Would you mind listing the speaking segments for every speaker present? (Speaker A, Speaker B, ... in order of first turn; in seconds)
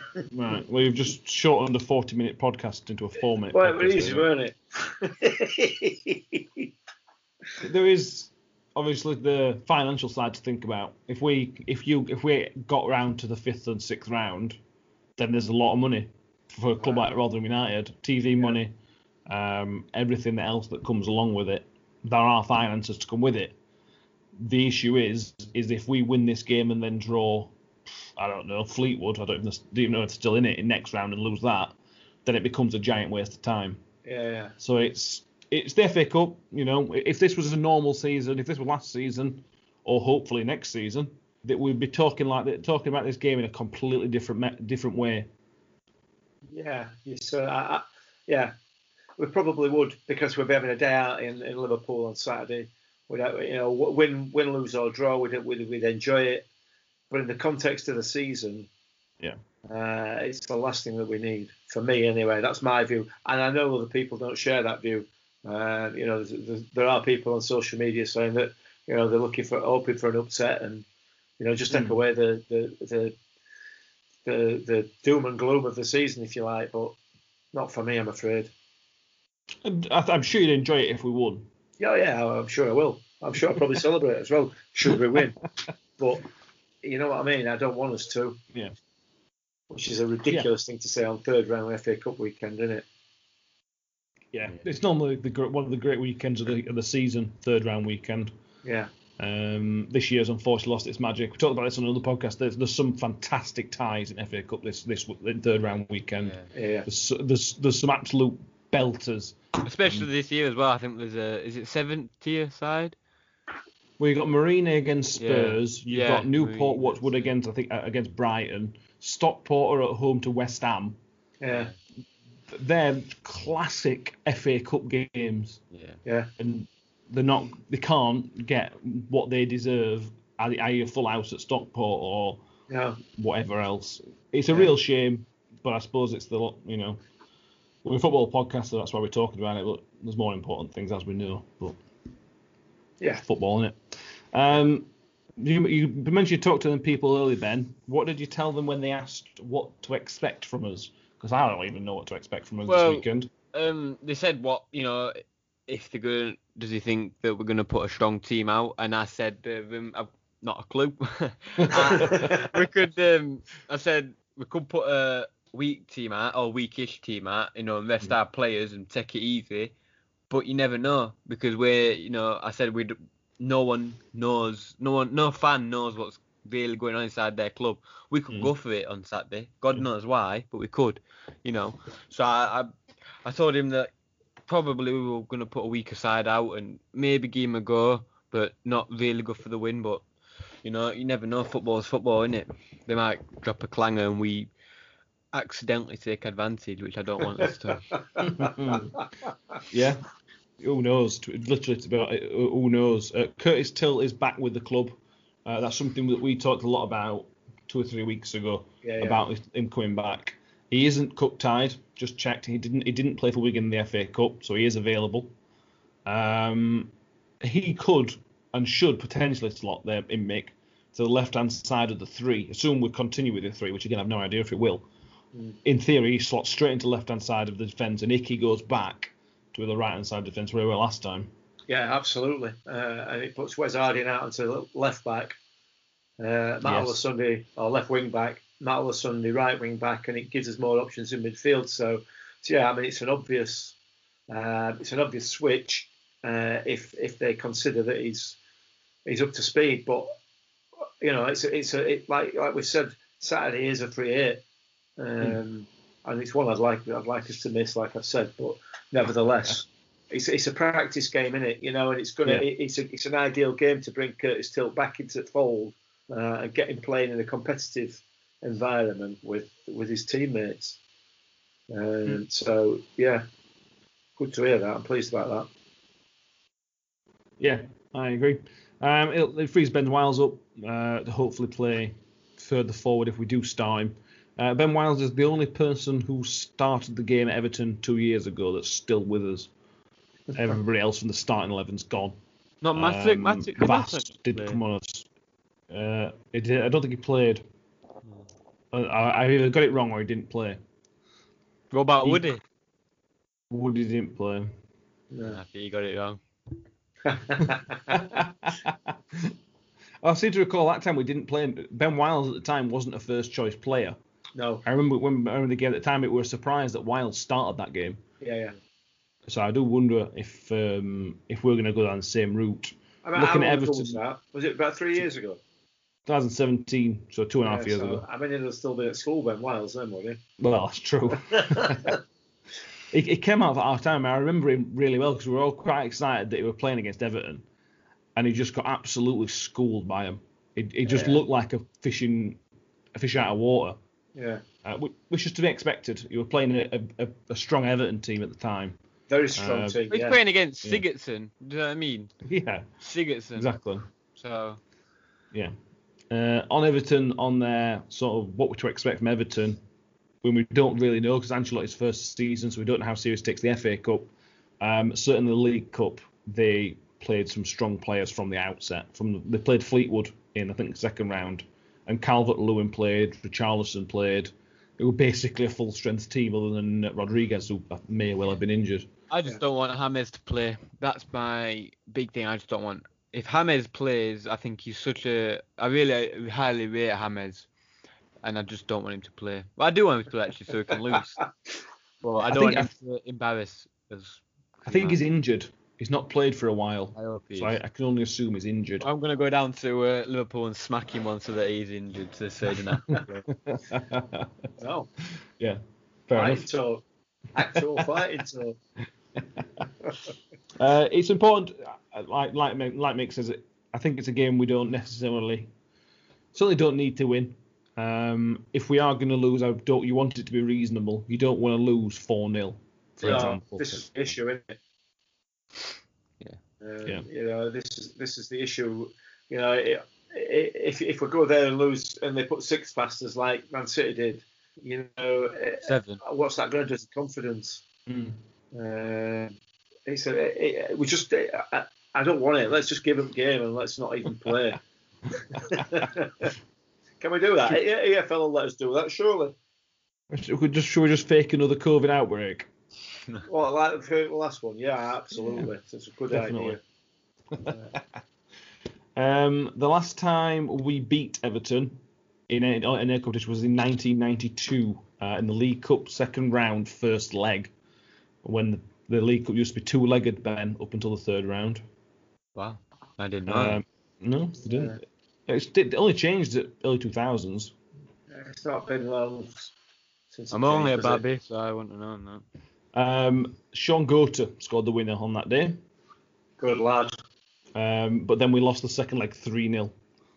Speaker A: 0.3-4.3, 7.6-14.6, 15.2-18.8, 19.3-23.6, 24.4-27.5, 28.1-33.8, 34.6-45.3, 71.7-72.0, 79.6-81.5, 94.3-98.3, 99.2-106.3, 106.8-110.1, 114.0-121.0, 122.5-125.6, 126.4-132.4, 133.1-137.0, 137.8-141.8, 143.2-153.3, 161.6-162.3, 198.2-198.9, 199.7-200.0, 200.6-215.3, 216.1-224.8, 225.6-231.3, 236.6-237.0, 277.4-289.5, 290.3-295.1, 295.7-297.4, 298.7-300.6, 303.5-304.5, 307.9-309.3, 310.0-314.0, 314.6-318.0, 319.3-324.0, 326.1-328.0, 330.4-331.9, 332.9-337.4, 338.2-342.4, 342.9-343.8, 344.6-348.8, 349.4-349.8, 352.2-352.7, 353.4-353.9, 356.1-359.6, 360.2-378.9, 392.3-392.7, 394.7-398.9, 403.4-404.3, 405.4-406.5, 409.2-409.6, 410.6-415.5, 416.3-423.9, 437.9-438.2, 450.1-452.5, 456.1-456.6, 457.3-457.8, 458.9-467.5, 468.2-471.6, 473.3-477.5, 482.7-485.6, 487.6-489.8
Speaker B: 3.5-6.7, 16.8-17.1, 34.0-34.5, 46.5-48.5, 49.2-56.5, 57.1-58.7, 59.7-70.8, 71.4-73.2, 74.2-77.0, 77.5-78.5, 81.8-85.4, 86.0-86.2, 86.8-88.4, 89.7-92.8, 98.6-98.9, 106.5-106.9, 121.4-121.7, 126.0-126.3, 132.7-133.0, 161.9-162.5, 198.2-199.1, 208.8-209.2, 231.7-235.4, 236.2-243.8, 244.3-248.4, 249.1-250.1, 251.0-254.4, 255.0-270.8, 271.7-273.2, 274.2-275.5, 305.1-305.4, 307.1-308.2, 314.3-314.6, 318.2-318.5, 323.0-325.4, 327.4-330.2, 331.3-331.9, 340.9-341.2, 344.2-344.4, 349.1-350.2, 404.6-404.9, 406.1-408.6, 423.0-424.6, 426.6-437.6, 438.5-439.3, 439.9-444.6, 445.3-446.3, 447.0-449.3, 453.3-456.6, 474.4-474.8, 478.1-479.5, 480.1-481.0, 486.4-487.0
Speaker C: 106.2-106.5, 109.6-113.0, 115.2-117.2, 125.7-126.0, 152.7-169.7, 170.3-182.7, 183.2-183.9, 184.5-190.0, 190.6-194.5, 195.3-197.9, 292.6-294.6, 301.7-302.4, 305.2-306.2, 349.9-352.1, 352.8-353.5, 354.2-354.6, 379.1-387.5, 388.2-391.2, 392.0-395.0, 396.9-397.6, 398.8-403.3, 435.6-436.0, 472.4-473.6, 480.3-482.2